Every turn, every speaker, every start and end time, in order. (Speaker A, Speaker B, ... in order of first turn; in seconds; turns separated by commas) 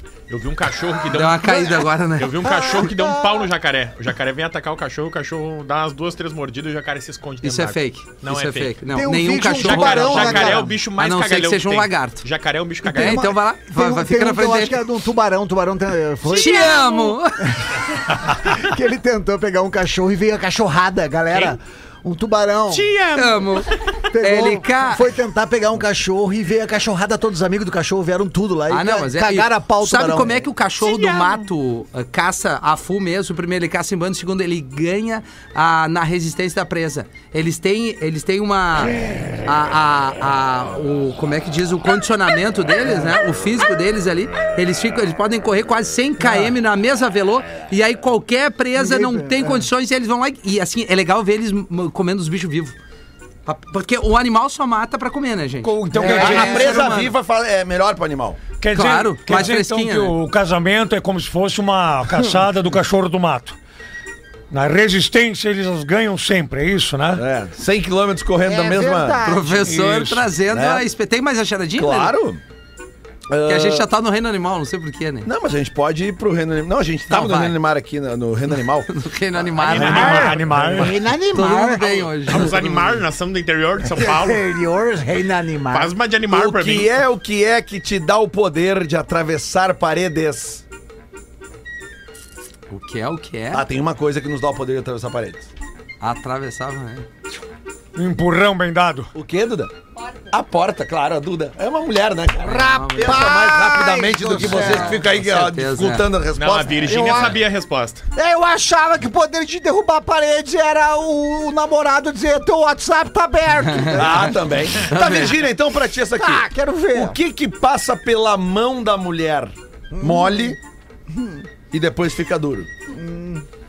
Speaker A: 0.3-8.8, Speaker B: 1.1-2.5, Speaker C: 2.4-3.5, Speaker B: 7.4-12.2, Speaker C: 8.9-10.7, Speaker A: 9.6-13.3, Speaker B: 12.8-14.8, Speaker C: 12.9-22.9, Speaker B: 16.3-17.6, Speaker A: 16.3-16.7, Speaker A: 21.3-21.6, Speaker A: 22.7-23.8, Speaker B: 23.1-25.0, Speaker C: 24.1-30.4, Speaker B: 28.7-52.8, Speaker A: 30.8-31.5, Speaker C: 48.7-49.7, Speaker B: 53.5-57.1, Speaker D: 55.6-56.8, Speaker E: 55.9-58.4, Speaker C: 55.9-56.8, Speaker D: 58.6-63.6, Speaker B: 58.7-60.1, Speaker D: 64.5-67.2, Speaker E: 67.2-69.2, Speaker C: 68.4-69.7, Speaker B: 69.2-72.1, Speaker D: 69.7-70.3, Speaker E: 70.5-70.9, Speaker E: 71.8-72.4, Speaker E: 73.3-73.9, Speaker B: 73.4-75.3, Speaker E: 75.2-80.2, Speaker B: 77.1-77.6, Speaker B: 78.9-80.4, Speaker A: 79.6-84.4, Speaker D: 79.7-81.0, Speaker C: 79.9-82.3, Speaker B: 81.3-83.0, Speaker C: 83.8-85.9, Speaker A: 85.7-87.0, Speaker E: 86.3-90.6, Speaker B: 92.7-93.7, Speaker E: 93.5-95.5, Speaker B: 96.0-97.0, Speaker D: 97.9-99.1, Speaker E: 99.1-99.7, Speaker E: 100.3-107.4, Speaker C: 102.4-105.0, Speaker B: 102.4-103.4, Speaker B: 104.3-106.1, Speaker A: 106.3-108.0, Speaker C: 106.9-107.4, Speaker C: 108.2-114.4, Speaker B: 113.6-115.4, Speaker E: 113.9-120.6, Speaker C: 116.2-117.2, Speaker C: 119.9-120.6, Speaker C: 121.1-121.5, Speaker E: 121.7-122.7, Speaker C: 122.9-123.4